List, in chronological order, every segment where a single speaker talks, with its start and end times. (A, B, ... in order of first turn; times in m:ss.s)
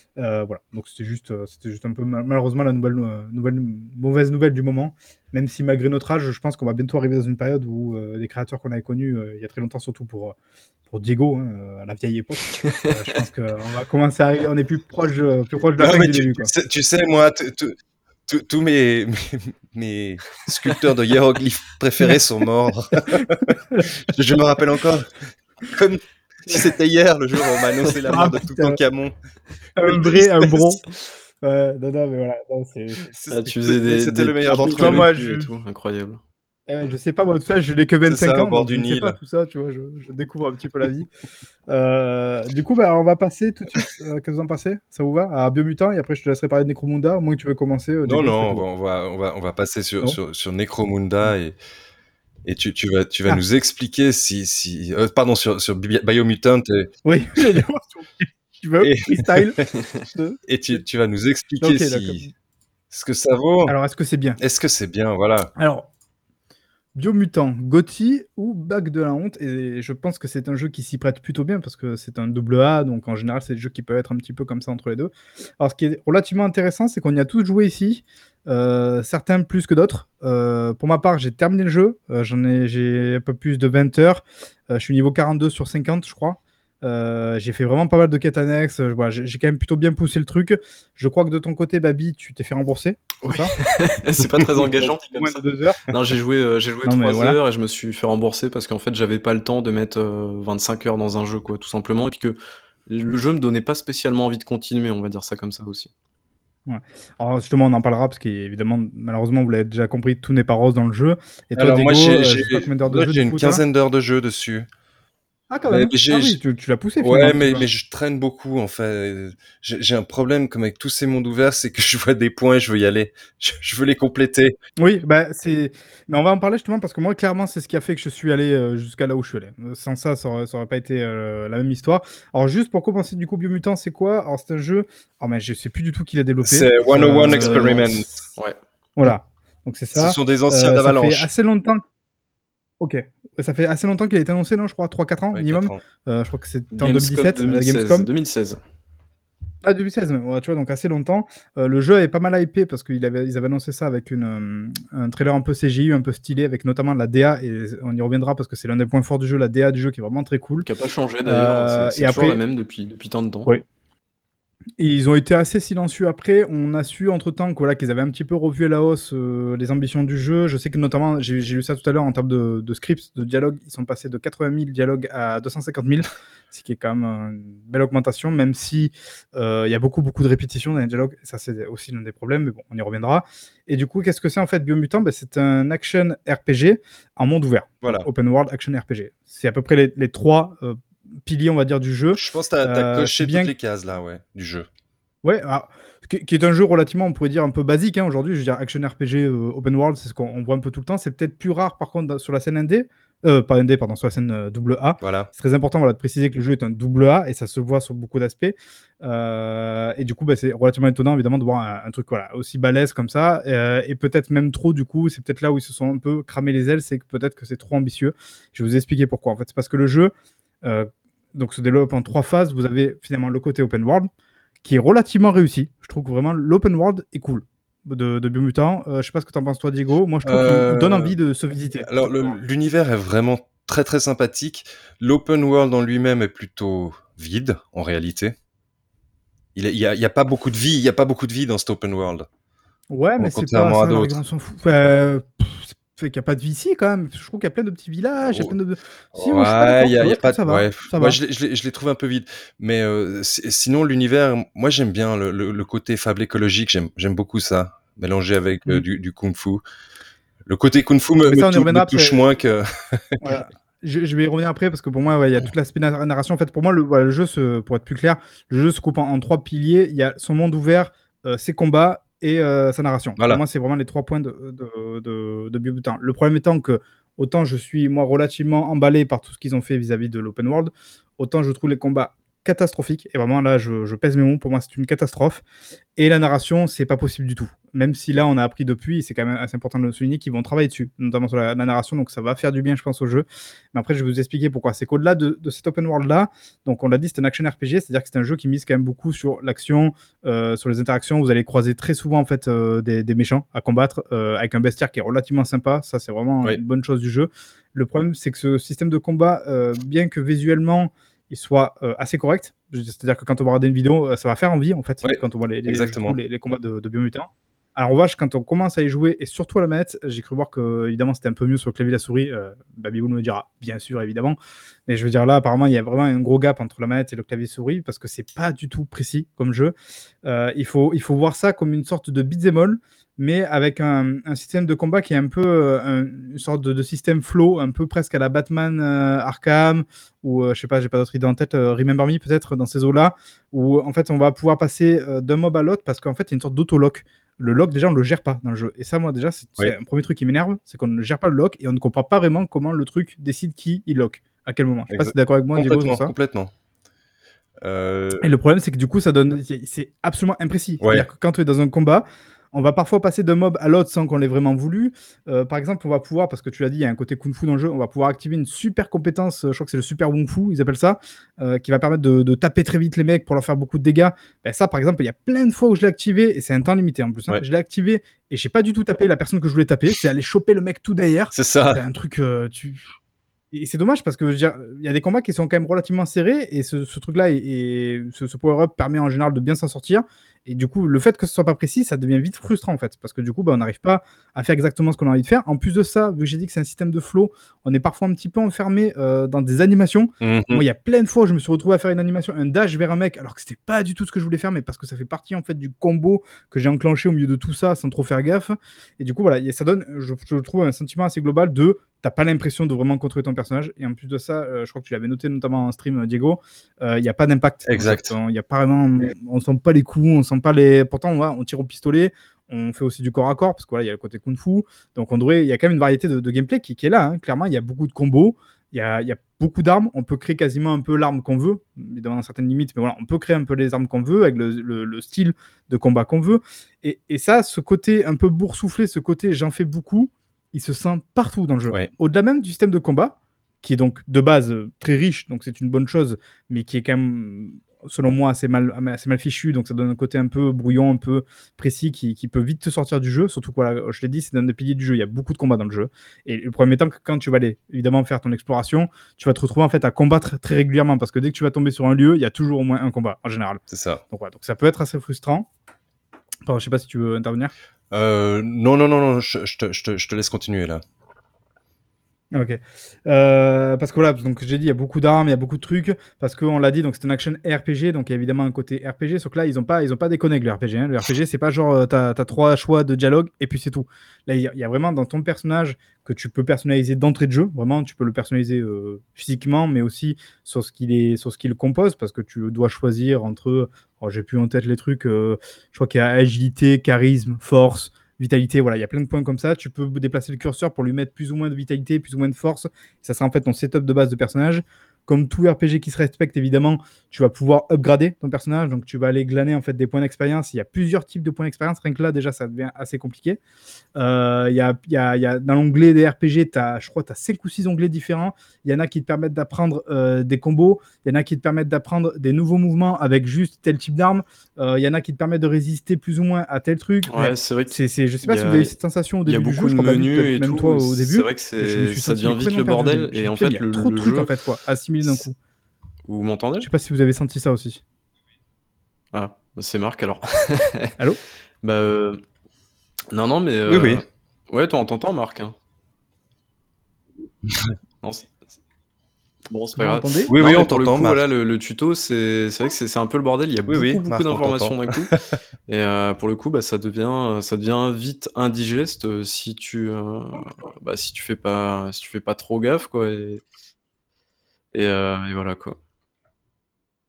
0:00.2-0:10.3 A
0:10.9-0:16.5 A
0:12.6-0:12.9 B
0:15.8-0:17.7 C
0:18.3-0:25.2 C
0:25.7-0:29.1 C
0:28.0-0:28.8 A
0:29.8-0:30.8 A
0:29.8-0:30.6 C
0:31.4-0:33.1 A
0:33.1-0:35.1 C
0:33.3-0:36.2 B
0:34.4-0:35.5 A
0:36.7-0:41.1 A
0:38.0-0:39.2 C
0:41.7-0:48.6 A
0:48.0-0:51.6 C
0:52.4-0:57.6 C
0:57.0-1:00.4 A
0:58.8-0:59.6 C
1:00.5-1:02.2 C
1:01.6-1:02.3 A
1:02.9-1:03.7 C
1:03.7-1:04.4 A
1:04.4-1:05.5 C
1:05.6-1:05.9 A
1:07.0-1:33.5 A
1:33.2-1:45.9 B
1:34.4-1:35.8 A
1:36.8-1:37.4 A
1:46.7-1:53.6 A
1:51.5-1:54.7 C
1:55.5-1:57.7 A
1:55.7-1:56.4 C
1:57.0-2:04.6 C
2:04.8-2:18.0 A
2:16.4-2:18.1 C
2:17.4-2:18.6 B
2:19.0-2:21.8 A
2:19.9-2:21.3 C
2:22.8-2:28.1 A
2:25.3-2:25.8 C
2:26.7-2:28.6 B
2:29.6-2:40.7 A
2:40.6-2:43.5 B
2:41.2-2:42.4 A
2:44.8-3:13.5 A
3:12.1-3:14.7 C
3:15.2-3:44.1 A
3:25.0-3:25.3 C
3:44.6-3:52.3 A
3:50.2-3:51.1 C
3:51.8-3:58.3 C
3:59.5-4:02.3 C
4:02.9-4:11.2 A
4:03.2-4:04.2 C
4:08.3-4:08.6 C
4:09.1-4:19.6 C
4:20.4-4:23.3 C
4:21.2-4:22.2 A
4:23.2-4:45.4 A
4:46.0-5:56.1 A
5:15.0-5:16.2 C
5:54.9-5:56.5 C
5:57.6-5:58.3 C
5:58.2-6:22.8 A
6:00.8-6:01.1 C
6:21.3-6:21.8 C
6:23.5-7:45.5 A
6:40.2-6:40.6 C
6:57.7-6:58.1 C
7:43.7-7:44.0 C
7:46.4-7:47.5 A
7:47.9-7:50.8 C
7:52.3-8:33.4 A
8:34.0-8:55.4 A
8:47.1-8:48.7 B
8:49.2-8:54.3 B
8:56.1-8:56.7 B
8:56.6-8:57.8 A
8:59.1-9:00.9 B
9:01.6-9:02.2 B
9:03.1-9:05.5 B
9:03.7-9:04.0 C
9:08.0-9:08.3 B
9:09.5-9:15.1 B
9:09.8-9:10.3 A
9:10.3-9:11.2 C
9:13.7-9:15.2 C
9:15.7-9:23.4 B
9:24.7-9:25.8 B